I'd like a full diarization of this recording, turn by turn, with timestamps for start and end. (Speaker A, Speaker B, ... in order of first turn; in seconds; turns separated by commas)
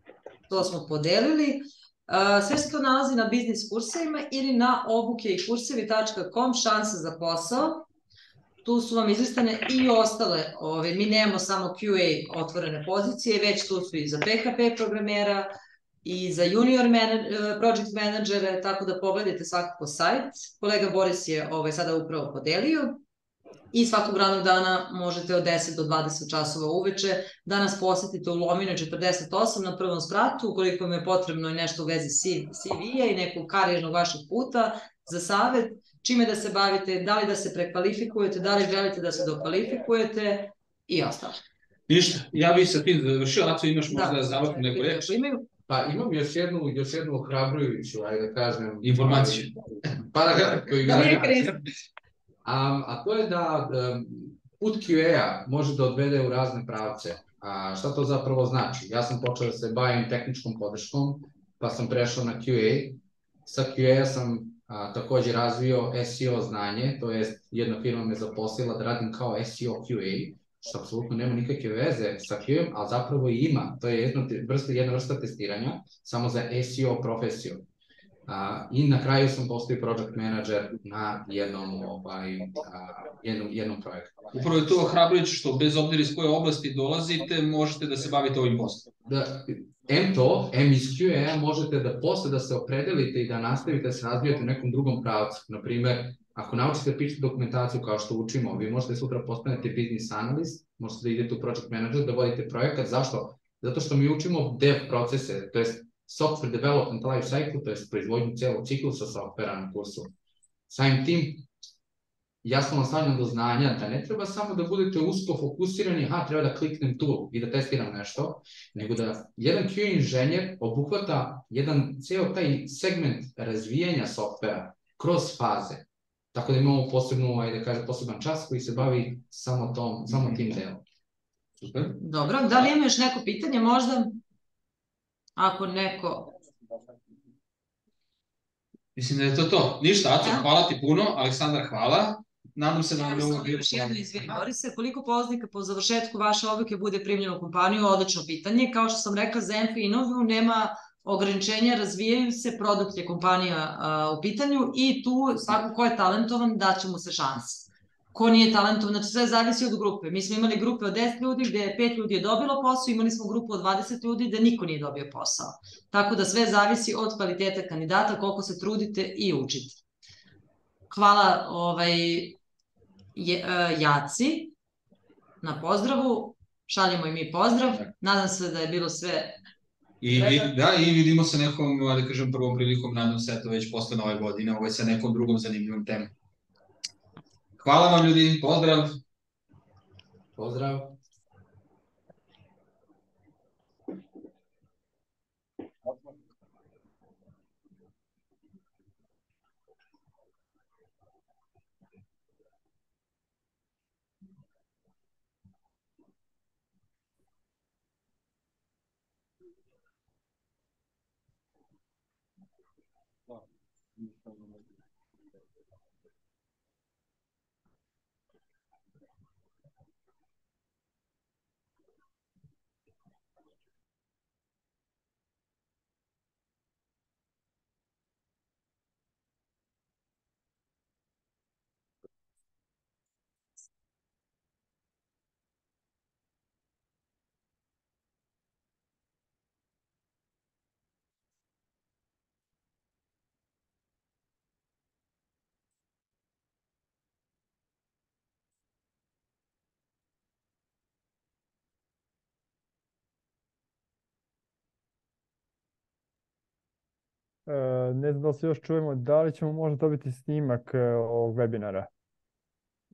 Speaker A: 0.5-7.8, Speaker A: 8.6-15.5, Speaker A: 16.0-23.0, Speaker A: 23.7-41.4, Speaker B: 41.9-45.1, Speaker A: 43.9-45.4, Speaker C: 45.7-51.4, Speaker B: 48.8-51.6, Speaker A: 50.8-51.5, Speaker C: 52.4-77.6, Speaker C: 78.3-84.2, Speaker B: 84.3-88.9, Speaker C: 89.0-110.1, Speaker C: 110.7-111.4, Speaker C: 112.4-130.8, Speaker B: 130.1-130.3, Speaker B: 131.6-131.9, Speaker A: 132.0-134.2, Speaker A: 135.4-136.3, Speaker B: 138.9-144.4, Speaker A: 140.2-140.5, Speaker A: 143.0-169.8, Speaker A: 170.9-172.4, Speaker A: 173.2-174.5, Speaker A: 175.4-179.4, Speaker B: 180.0-186.1, Speaker A: 180.1-180.5, Speaker B: 187.6-189.0, Speaker C: 190.3-191.0, Speaker D: 257.4-261.9